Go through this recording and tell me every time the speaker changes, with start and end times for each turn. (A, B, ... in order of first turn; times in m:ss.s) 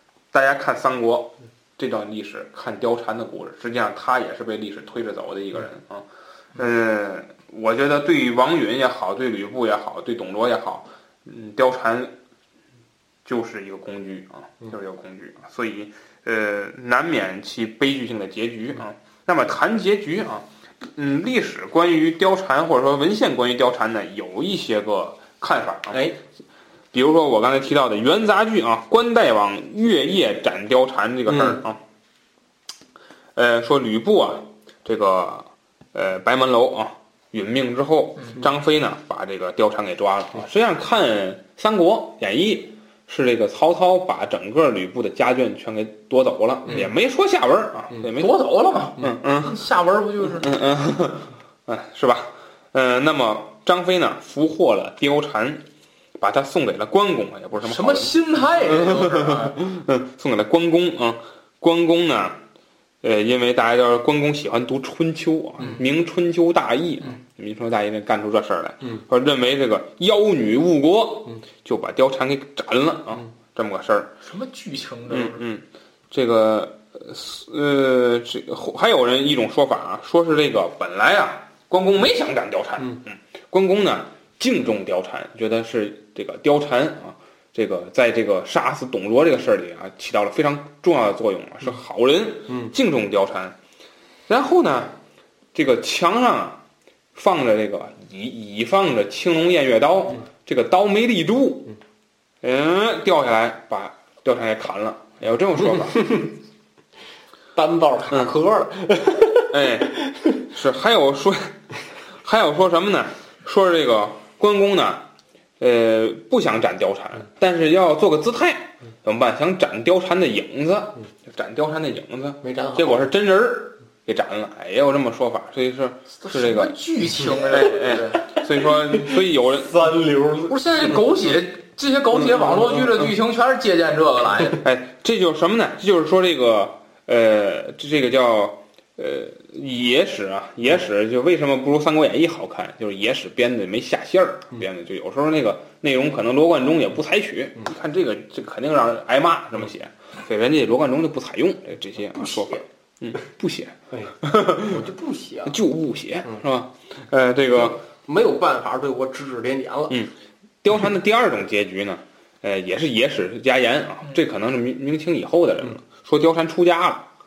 0:00.3-0:12.1 A
0:13.2-0:26.1 A
0:26.9-0:31.8 A
0:31.3-0:31.6 B
0:33.4-0:48.4 A
0:48.2-0:50.6 C
0:49.0-0:49.6 A
0:50.2-0:55.6 A
0:56.2-1:02.4 A
0:57.6-0:59.6 C
1:03.0-1:14.1 A
1:14.2-1:15.4 C
1:15.1-1:33.6 A
1:34.3-1:35.0 A
1:35.5-1:36.6 A
1:37.2-1:41.8 A
1:42.4-1:46.3 A
1:47.6-1:49.5 B
1:49.5-1:51.6 A
1:52.2-1:55.1 A
1:55.6-2:09.9 A
2:02.4-2:03.1 B
2:06.2-2:08.2 C
2:09.6-2:10.6 B
2:10.5-2:14.6 C
2:14.6-2:34.8 A
2:32.2-2:32.6 B
2:33.9-2:35.6 B
2:35.5-2:37.8 A
2:37.5-2:40.0 B
2:40.6-2:47.1 A